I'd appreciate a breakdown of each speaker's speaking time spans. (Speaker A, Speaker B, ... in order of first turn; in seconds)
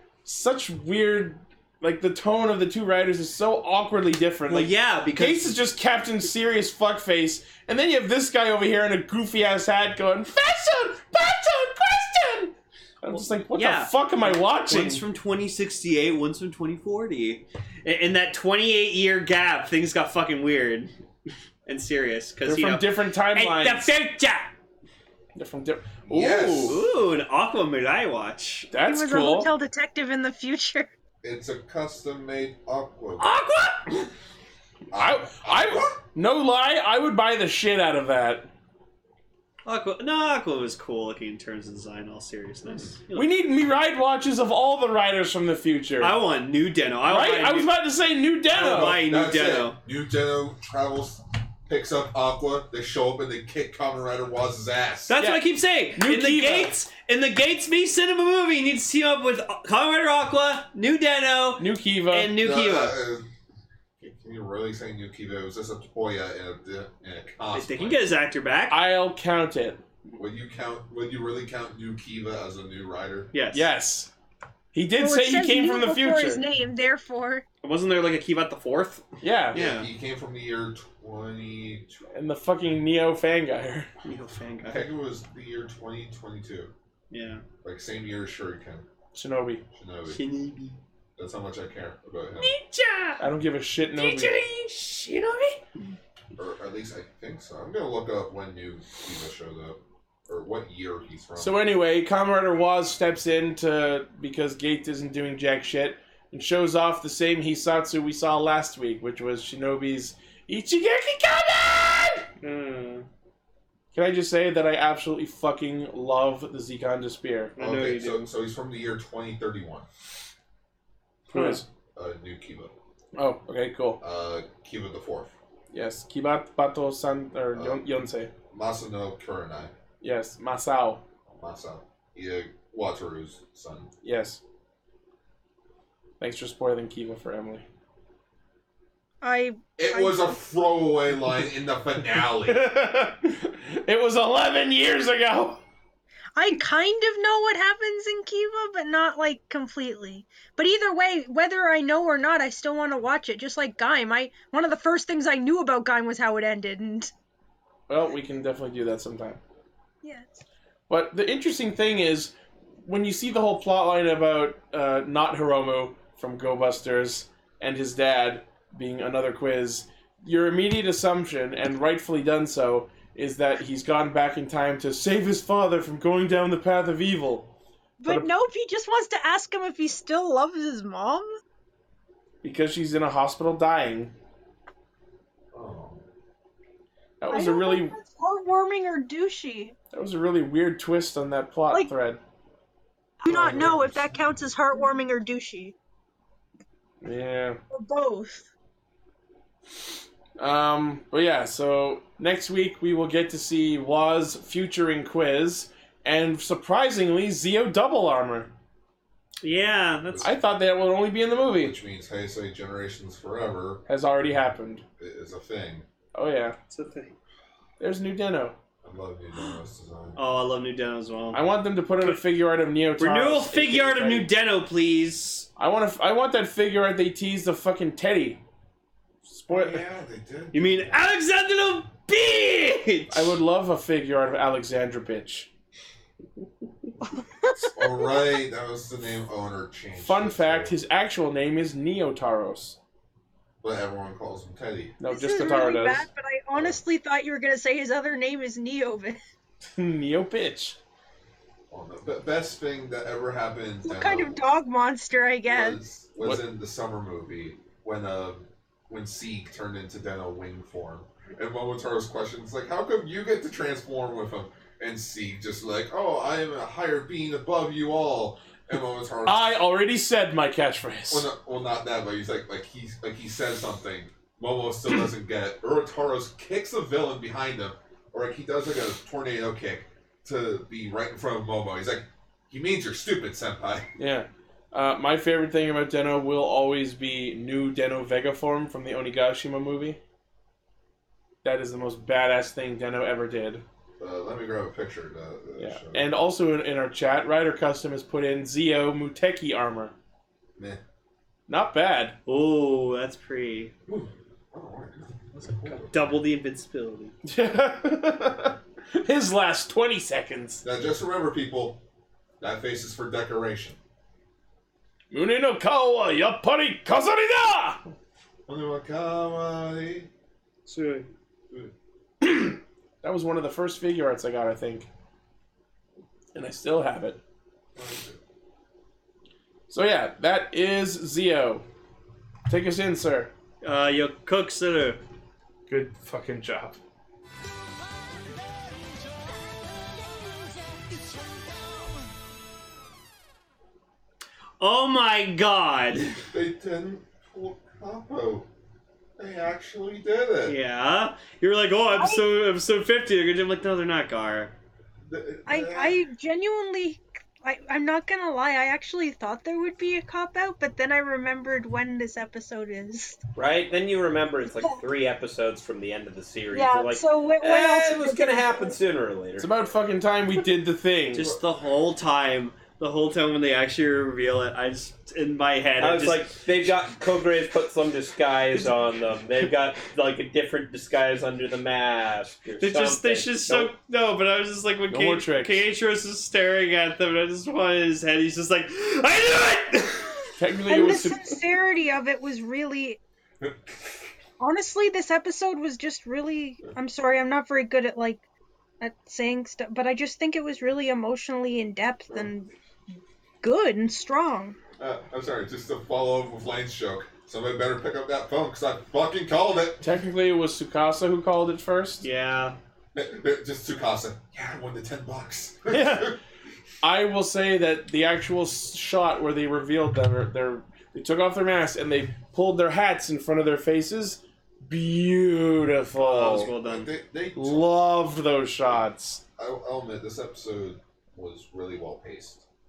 Speaker A: 0.2-15.0, 22.4-23.9, 25.4-26.8, 28.7-29.5, 34.9-38.5, 43.1-46.2, 47.1-49.0, 55.2-56.7, 61.6-62.3, 68.7-69.8, 73.5-74.1, 74.7-76.4, 79.2-79.6, 82.1-83.9, 89.2-89.6, 93.2-94.4, 101.4-112.3, 113.9-117.5, 121.3-121.7, 123.2-124.0, 125.7-128.3, 130.0-131.0, 134.0-134.4, 136.2-137.6, 142.5-145.6, 157.9-159.4, 160.9-177.5, 182.4-184.1, 187.2-188.0, 189.9-192.2, 193.3-193.8, 197.0-197.6, 200.4-208.5, 210.2-211.7, 213.9-214.8, 216.1-216.6, 217.8-218.6, 221.3-224.3, 225.6-228.4, 229.3-229.8, 233.1-235.5, 240.0-242.8, 245.0-246.1, 249.8-250.8, 269.3-271.3, 284.0-290.0, 291.4-293.6, 295.6-299.9, 301.5-302.2, 307.2-310.6, 315.1-317.8, 322.2-324.9, 326.3-327.2, 329.7-331.6, 332.5-333.3, 335.7-336.8, 369.4-371.3, 384.9-385.7, 390.4-391.4, 409.8-412.1, 415.7-416.1, 416.8-426.5, 427.4-429.2
Speaker B: 4.5-5.5, 13.2-20.9, 21.7-24.5, 26.6-28.7, 33.2-34.1, 39.6-43.3, 46.0-47.7, 48.5-49.8, 55.1-63.0, 67.5-68.8, 73.3-73.7, 77.6-79.9, 84.0-84.9, 87.1-87.4, 90.1-90.8, 92.4-93.2, 94.0-95.6, 112.4-113.1, 117.6-118.3, 121.3-121.6, 209.4-210.3, 216.7-217.2, 220.2-221.4, 223.0-225.5, 230.5-233.4, 302.3-303.7, 305.8-307.1, 320.7-321.1, 333.6-335.0, 344.6-346.2, 350.5-354.6, 371.1-376.4, 382.6-390.3, 412.0-412.6, 426.0-426.9
Speaker C: 26.1-26.8, 31.2-33.3, 34.9-36.0, 48.6-55.1, 62.4-63.3, 64.0-68.1, 70.2-73.3, 79.5-82.1, 84.7-86.7, 87.6-88.9, 89.7-90.2, 91.2-92.5, 96.4-101.6, 117.6-119.9, 122.0-122.7, 124.0-125.3, 127.5-127.8, 128.5-129.7, 131.3-133.9, 139.8-142.7, 185.5-186.0, 193.3-193.9, 211.6-213.8, 215.0-215.9, 218.8-220.2, 229.5-231.1, 237.7-240.8, 243.6-245.0, 246.5-246.8, 251.7-254.4, 255.5-269.6, 271.1-283.9, 294.0-296.1, 303.9-306.2, 310.6-311.8, 312.4-313.8, 318.5-320.1, 327.8-328.2, 346.3-348.5, 349.2-350.6, 355.1-356.0, 371.2-371.4, 404.8-409.8, 412.9-416.2, 426.3-427.7, 429.4-432.4
Speaker D: 28.8-30.9, 75.0-77.5, 139.2-140.4, 146.4-157.1, 160.0-160.4, 178.0-181.3, 187.3-189.8, 193.2-195.8, 197.7-198.5, 237.2-238.2, 245.1-249.2, 253.8-255.8, 351.9-352.2, 355.5-363.2, 364.5-364.8, 366.5-368.8, 390.7-393.0, 394.4-398.2, 398.8-402.5, 403.4-404.6
Speaker E: 363.4-369.5, 375.8-383.7